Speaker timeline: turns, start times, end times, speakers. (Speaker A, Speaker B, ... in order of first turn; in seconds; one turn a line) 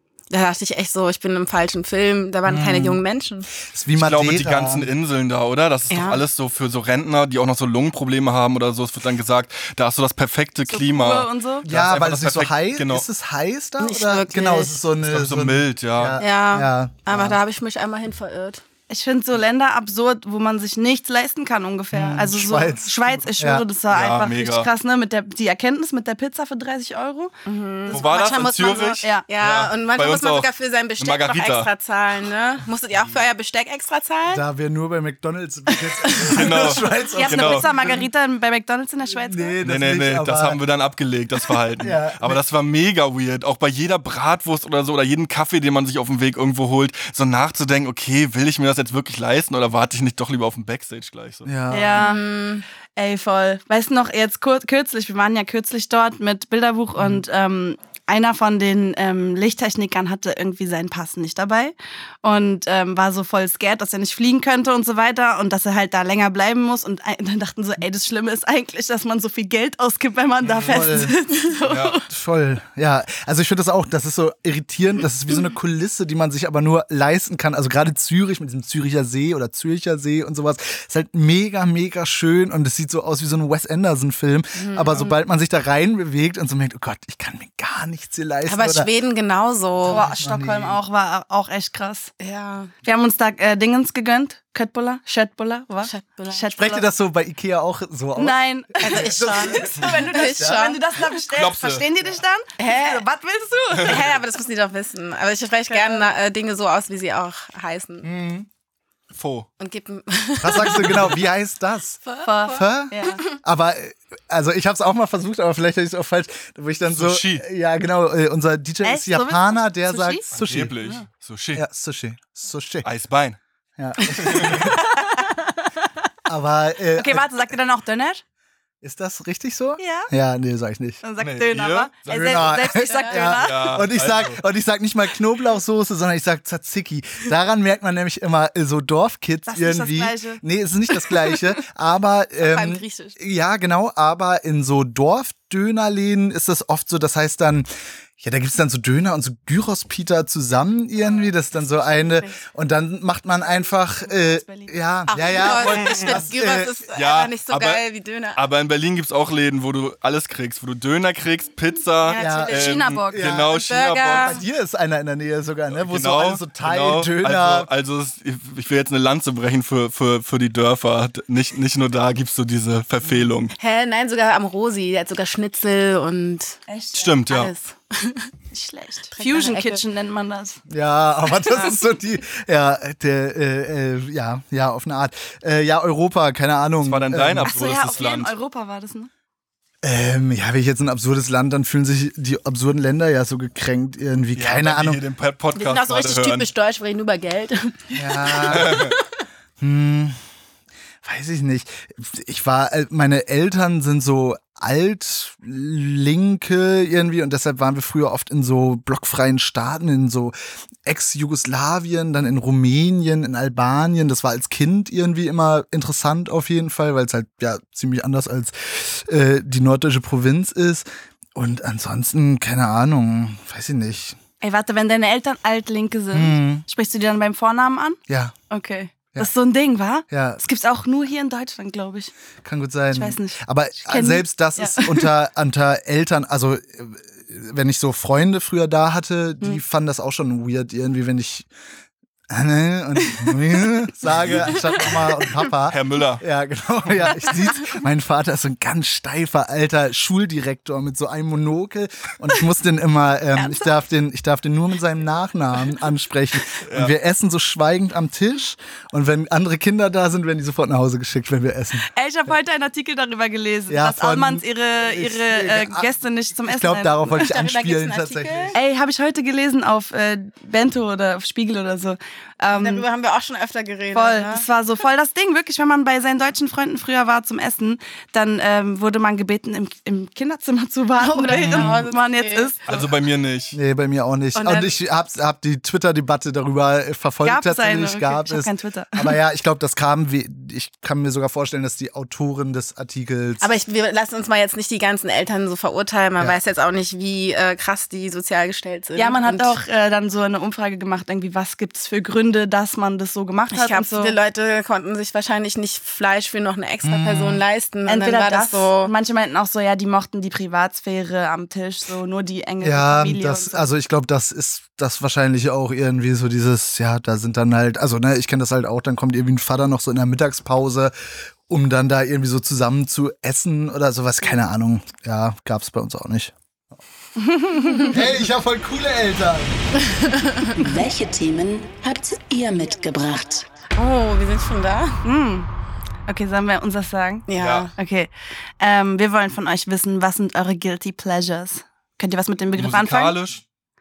Speaker A: 0.3-3.5
Speaker B: 2.5-3.0
Speaker B: 3.7-4.9
Speaker C: 4.0-13.1
Speaker A: 5.9-6.2
Speaker D: 10.7-11.7
Speaker B: 11.6-17.4
Speaker A: 13.8-14.8
Speaker C: 15.0-16.2
Speaker A: 16.2-18.6
Speaker D: 18.9-27.3
Speaker B: 21.9-23.7
Speaker C: 23.9-24.7
Speaker A: 27.4-34.4
Speaker D: 27.9-28.1
Speaker C: 27.9-31.7
Speaker B: 34.3-38.1
Speaker D: 36.0-39.6
Speaker C: 36.3-37.7
Speaker B: 39.1-40.6
Speaker C: 39.6-51.5
Speaker B: 41.8-42.4
Speaker B: 51.5-52.1
Speaker D: 51.7-52.2
Speaker A: 51.9-52.6
Speaker D: 53.0-72.0
Speaker C: 70.4-71.0
Speaker B: 70.7-71.2
Speaker C: 71.6-72.0
Speaker B: 72.1-88.9
Speaker A: 84.5-85.2
Speaker A: 88.5-90.1
Speaker B: 89.8-90.8
Speaker D: 89.9-92.1
Speaker A: 92.2-92.7
Speaker D: 92.8-96.8
Speaker A: 95.8-96.5
Speaker B: 96.6-100.7
Speaker D: 98.2-104.1
Speaker A: 98.8-100.8
Speaker C: 101.3-101.9
Speaker A: 102.6-103.1
Speaker A: 103.7-108.1
Speaker D: 105.7-106.1
Speaker B: 108.0-108.5
Speaker C: 109.1-109.5
Speaker A: 109.6-111.1
Speaker B: 110.4-120.8
Speaker A: 112.0-113.2
Speaker D: 112.2-113.2
Speaker C: 116.9-117.5
Speaker D: 118.8-120.2
Speaker C: 120.3-121.6
Speaker B: 121.5-122.9
Speaker C: 122.8-123.4
Speaker B: 123.8-124.8
Speaker C: 124.2-124.7
Speaker D: 124.4-125.4
Speaker B: 126.3-127.5
Speaker D: 127.0-128.2
Speaker B: 128.8-131.0
Speaker D: 129.8-130.1
Speaker D: 131.0-133.8
Speaker C: 131.2-134.4
Speaker B: 132.1-147.7
Speaker A: 132.9-133.2
Speaker D: 139.5-140.4
Speaker A: 142.4-143.2
Speaker B: 148.2-156.8
Speaker A: 151.0-152.4
Speaker D: 153.5-156.2
Speaker A: 155.1-158.4
Speaker C: 156.9-157.8
Speaker C: 158.3-164.4
Speaker A: 162.1-162.7
Speaker B: 162.2-163.5
Speaker D: 162.5-163.3
Speaker A: 163.5-164.4
Speaker B: 164.1-167.7
Speaker C: 165.7-173.5
Speaker B: 173.0-173.3
Speaker A: 173.6-176.6
Speaker D: 176.7-177.1
Speaker C: 176.9-177.5
Speaker A: 177.3-178.3
Speaker D: 178.5-180.6
Speaker A: 179.1-179.8
Speaker B: 180.7-187.6
Speaker C: 186.8-188.3
Speaker D: 187.4-189.1
Speaker B: 189.8-195.0
Speaker C: 194.3-196.5
Speaker A: 195.5-198.8
Speaker B: 197.9-198.8
Speaker C: 198.5-199.0
Speaker B: 199.6-200.2
Speaker B: 201.0-210.3
Speaker B: 210.8-224.2
Speaker D: 224.4-228.0
Speaker B: 226.1-226.7
Speaker B: 228.1-228.3
Speaker D: 228.5-232.1
Speaker B: 230.1-230.4
Speaker B: 232.4-241.5
Speaker D: 232.9-235.1
Speaker B: 242.3-261.9
Speaker C: 244.2-244.8
Speaker C: 245.7-246.2
Speaker D: 253.4-253.7
Speaker C: 256.7-256.9
Speaker D: 261.9-267.2
Speaker B: 263.7-265.9
Speaker B: 266.5-268.6
Speaker A: 267.1-268.6
Speaker D: 268.5-272.9
Speaker A: 272.5-274.5
Speaker D: 273.9-282.6
Speaker A: 281.0-282.8
Speaker C: 281.3-281.7
Speaker C: 282.7-283.6
Speaker B: 283.5-293.5
Speaker A: 284.4-284.8
Speaker D: 287.2-289.1
Speaker A: 293.4-299.6
Speaker D: 298.9-304.2
Speaker A: 303.5-308.9
Speaker B: 306.8-307.4
Speaker D: 307.9-313.7
Speaker B: 312.6-320.9
Speaker B: 321.5-326.3
Speaker D: 327.2-328.0
Speaker B: 327.9-329.7
Speaker E: 330.6-333.5
Speaker A: 333.8-335.0
Speaker D: 335.0-335.5
Speaker D: 336.1-343.2
Speaker A: 337.3-337.7
Speaker C: 337.4-337.7
Speaker C: 342.5-343.4